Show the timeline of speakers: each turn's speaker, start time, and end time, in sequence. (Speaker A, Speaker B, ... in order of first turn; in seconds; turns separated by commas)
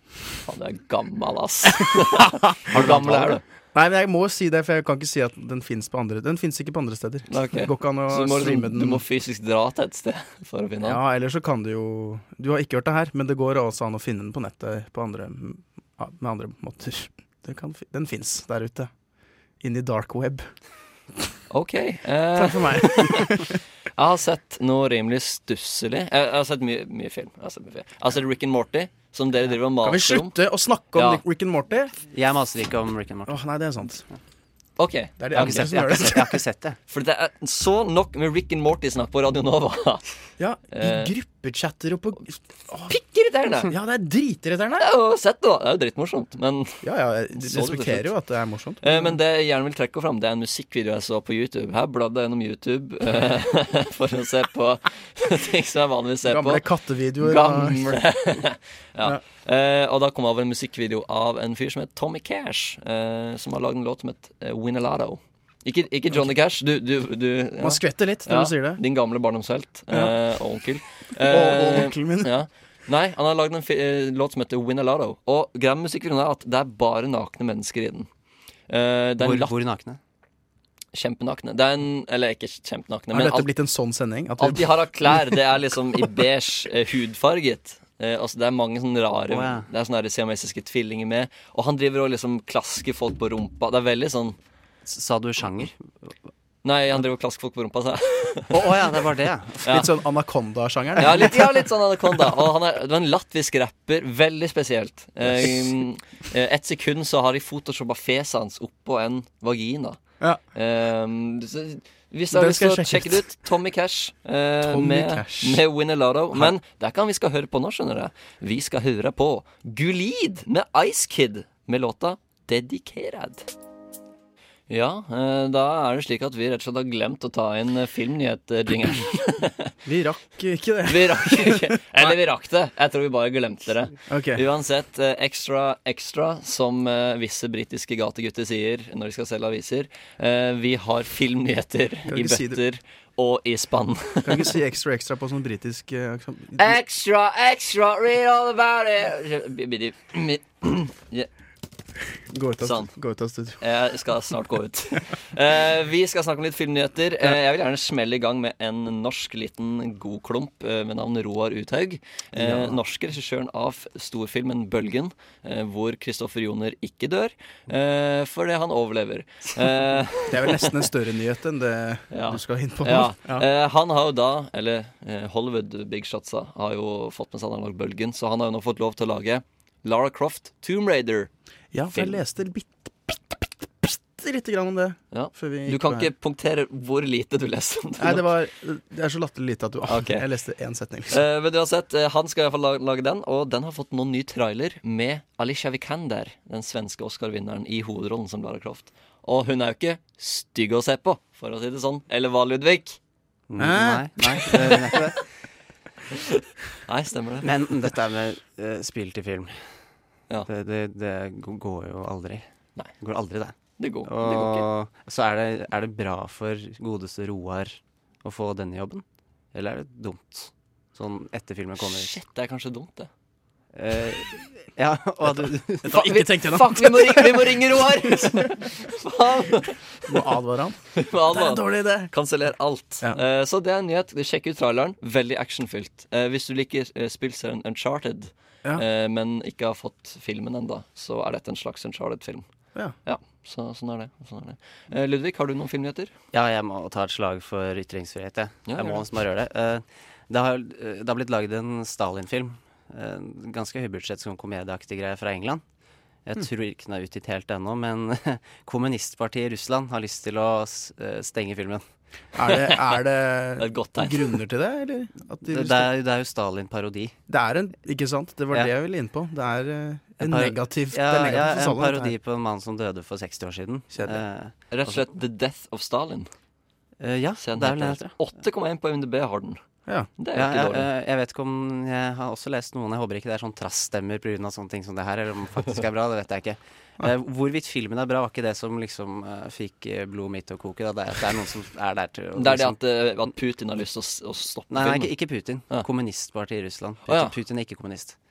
Speaker A: 0.5-3.4, Speaker B: 1.7-3.0, Speaker C: 2.7-3.4, Speaker B: 3.7-9.0, Speaker A: 7.3-11.0, Speaker B: 10.8-18.9, Speaker B: 19.6-20.5, Speaker A: 21.5-30.4, Speaker B: 22.4-23.6, Speaker B: 29.8-32.0, Speaker A: 30.9-31.2, Speaker C: 32.1-33.4, Speaker B: 33.3-34.0, Speaker A: 34.8-36.1, Speaker B: 35.2-36.4, Speaker C: 35.4-36.8, Speaker A: 36.9-40.0, Speaker B: 40.4-43.0, Speaker A: 40.7-41.1, Speaker A: 42.9-43.7, Speaker B: 43.7-44.9, Speaker A: 44.8-46.8, Speaker B: 46.8-49.2, Speaker A: 47.4-48.1, Speaker A: 48.8-56.6, Speaker B: 56.2-58.0, Speaker A: 57.2-78.1, Speaker B: 67.6-68.8, Speaker B: 69.9-70.2, Speaker B: 71.2-72.3, Speaker A: 78.7-79.5, Speaker C: 79.2-80.0, Speaker A: 80.9-83.5, Speaker B: 83.1-85.4, Speaker A: 84.4-94.4, Speaker C: 89.3-89.7, Speaker C: 94.9-96.1, Speaker A: 96.6-98.6, Speaker C: 98.5-99.7, Speaker B: 99.6-101.6, Speaker A: 101.0-110.0, Speaker A: 110.5-123.5, Speaker B: 112.3-113.3, Speaker B: 114.6-115.6, Speaker A: 124.7-129.7, Speaker B: 129.8-132.2, Speaker A: 130.9-144.5, Speaker B: 134.1-134.4, Speaker B: 142.1-142.6, Speaker B: 144.2-146.8, Speaker A: 146.6-151.3, Speaker B: 152.3-153.6, Speaker A: 152.6-152.9, Speaker A: 153.6-170.8, Speaker B: 170.3-173.5, Speaker A: 172.1-181.3, Speaker B: 181.7-186.1, Speaker A: 181.9-182.2, Speaker A: 185.1-188.3, Speaker B: 188.0-191.2, Speaker A: 189.9-190.2, Speaker A: 191.1-203.0, Speaker C: 203.5-205.2, Speaker B: 203.6-204.8, Speaker A: 204.5-205.2, Speaker A: 206.1-207.5, Speaker C: 207.4-209.7, Speaker C: 210.5-212.5, Speaker C: 213.0-222.2, Speaker A: 213.8-214.7, Speaker A: 221.8-223.1, Speaker C: 223.7-226.0, Speaker B: 225.8-227.6, Speaker A: 225.9-230.3, Speaker B: 230.1-230.8, Speaker A: 230.9-242.5, Speaker B: 231.3-232.1, Speaker A: 243.1-246.1, Speaker C: 246.3-255.6, Speaker A: 248.7-249.0, Speaker C: 256.3-261.8, Speaker B: 262.4-265.9, Speaker A: 262.5-263.0, Speaker A: 263.6-264.4, Speaker C: 265.4-267.1, Speaker B: 267.3-272.1, Speaker C: 270.2-275.0, Speaker B: 273.9-274.2, Speaker A: 274.7-276.3, Speaker C: 277.0-278.2, Speaker A: 277.4-279.6, Speaker A: 280.2-280.9, Speaker C: 280.3-292.8, Speaker A: 292.4-295.1, Speaker C: 294.7-298.2, Speaker A: 297.1-297.3